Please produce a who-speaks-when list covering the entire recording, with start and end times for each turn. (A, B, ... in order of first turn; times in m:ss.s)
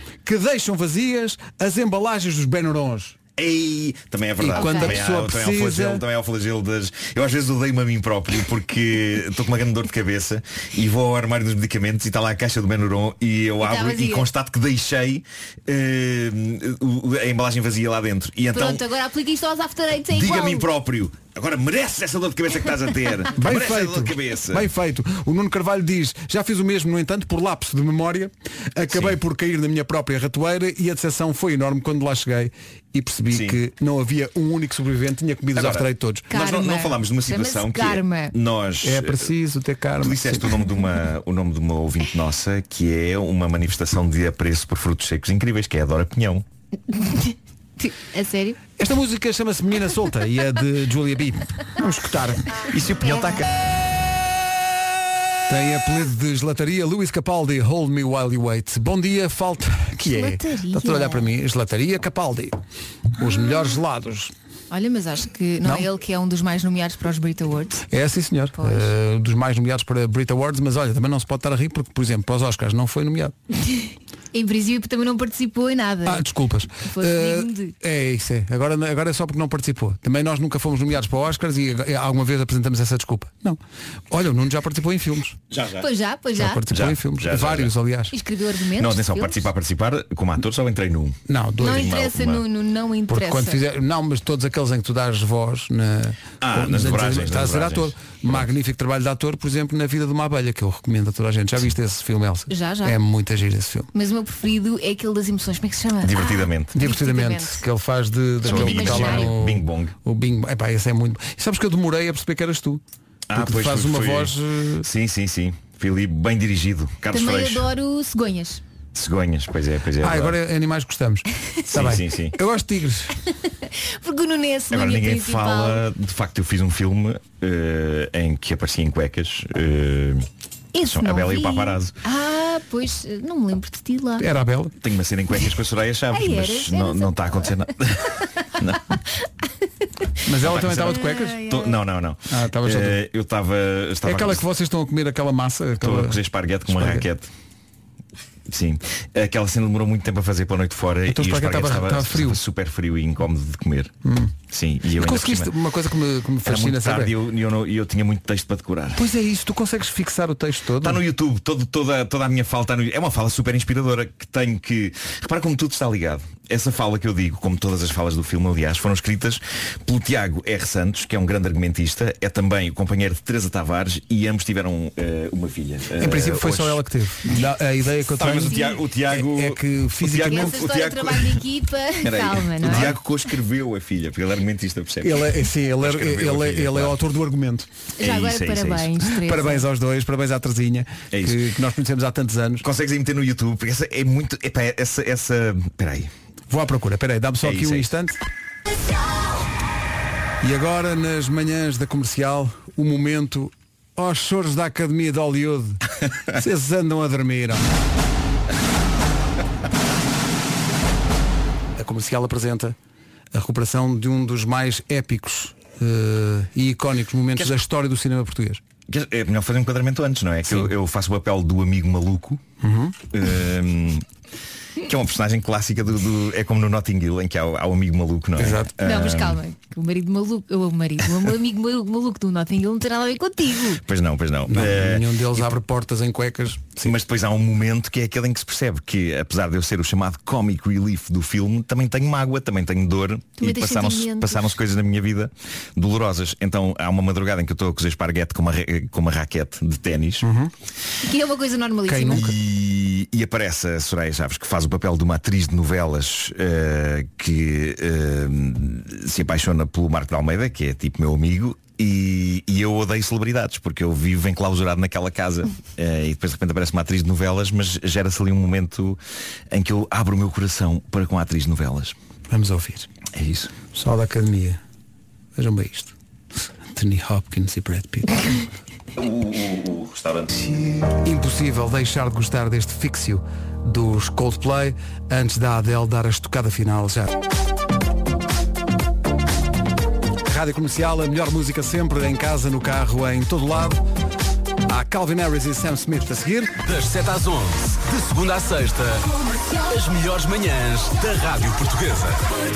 0:00.2-0:03.2 A
0:03.4-0:18.8 B
0:04.4-0:06.0 A
0:04.6-0:04.9 C
0:13.6-0:14.3 C
0:18.5-0:20.6 C
0:20.1-0:24.7 B
0:23.4-0:36.3 A
0:28.9-0:29.2 B
0:33.3-0:33.6 B
0:35.6-0:39.3 B
0:36.3-0:38.3 C
0:38.8-0:40.6 A
0:40.0-0:46.4 B
0:46.9-0:48.6 C
0:48.8-0:52.5 A
0:52.7-0:53.5 B
0:55.5-1:02.6 A
1:00.0-1:01.2 C
1:03.2-1:04.3 A
1:04.7-1:07.8 C
1:07.9-1:13.3 A
1:08.6-1:08.9 C
1:14.3-1:16.2 C
1:16.0-1:23.6 A
1:16.8-1:17.7 C
1:24.1-1:25.4 A
1:25.5-1:25.9 B
1:25.8-1:26.6 C
1:26.4-1:28.1 A
1:26.7-1:27.7 B
1:28.1-1:29.5 C
1:28.8-1:32.4 B
1:31.3-1:31.9 A
1:31.6-1:33.6 C
1:33.1-1:43.9 A
1:36.4-1:38.4 B
1:42.5-1:43.0 C
1:43.9-1:47.6 C
1:46.0-1:46.8 B
1:46.7-1:52.8 A
1:48.4-1:49.9 B
1:48.4-1:49.3 C
1:53.3-1:57.7 B
1:53.3-1:54.9 A
1:57.1-1:58.6 C
1:58.9-2:00.4 B
2:00.0-2:03.1 A
2:01.7-2:02.4 B
2:03.5-2:05.8 C
2:04.7-2:10.2 B
2:10.7-2:14.2 C
2:10.9-2:11.9 B
2:14.2-2:14.7 A
2:14.8-2:18.8 B
2:16.1-2:17.6 C
2:20.2-2:21.4 A
2:20.4-2:24.4 B
2:20.9-2:21.8 C
2:22.3-2:23.0 A
2:24.0-2:27.0 A
2:25.8-2:27.3 B
2:28.5-2:33.9 B
2:31.1-2:32.4 A
2:34.0-2:34.3 A
2:34.5-2:35.5 B
2:35.0-2:37.1 A
2:36.4-2:39.0 B
2:38.9-2:41.0 A
2:40.8-2:56.8 B
2:56.0-3:00.7 A
2:58.2-3:01.4 B
3:00.2-3:03.0 C
3:02.0-3:07.0 B
3:02.6-3:03.0 A
3:05.0-3:07.7 A
3:08.0-3:09.6 C
3:08.0-3:08.9 B
3:09.1-3:12.6 A
3:11.1-3:11.4 B
3:12.6-3:16.1 B
3:16.5-3:18.2 A
3:17.4-3:17.9 B
3:20.4-3:25.8 A
3:26.3-3:27.7 A
3:31.8-3:32.8 A
3:33.3-3:38.6 A
3:37.4-3:37.6 B
3:38.9-3:42.4 B
3:40.5-3:40.7 A
3:42.6-3:43.0 A
3:43.1-3:44.0 B
3:44.8-3:49.4 B
3:48.4-3:48.7 A
3:48.8-3:53.8 C
3:53.8-3:55.5 B
3:54.5-3:56.9 A
3:56.8-4:10.2 B
4:03.4-4:04.6 C
4:10.2-4:10.5 A
4:11.0-4:12.3 C
4:11.9-4:12.3 A
4:12.1-4:29.0 B
4:29.5-4:31.9 B
4:32.3-4:32.9 A
4:33.2-4:33.5 B
4:33.7-4:34.6 A
4:35.4-4:35.9 A
4:36.7-4:38.5 A
4:39.0-4:40.9 B
4:41.0-4:47.1 A
4:50.2-4:53.8 A
4:54.7-4:56.6 A
4:56.6-5:02.3 D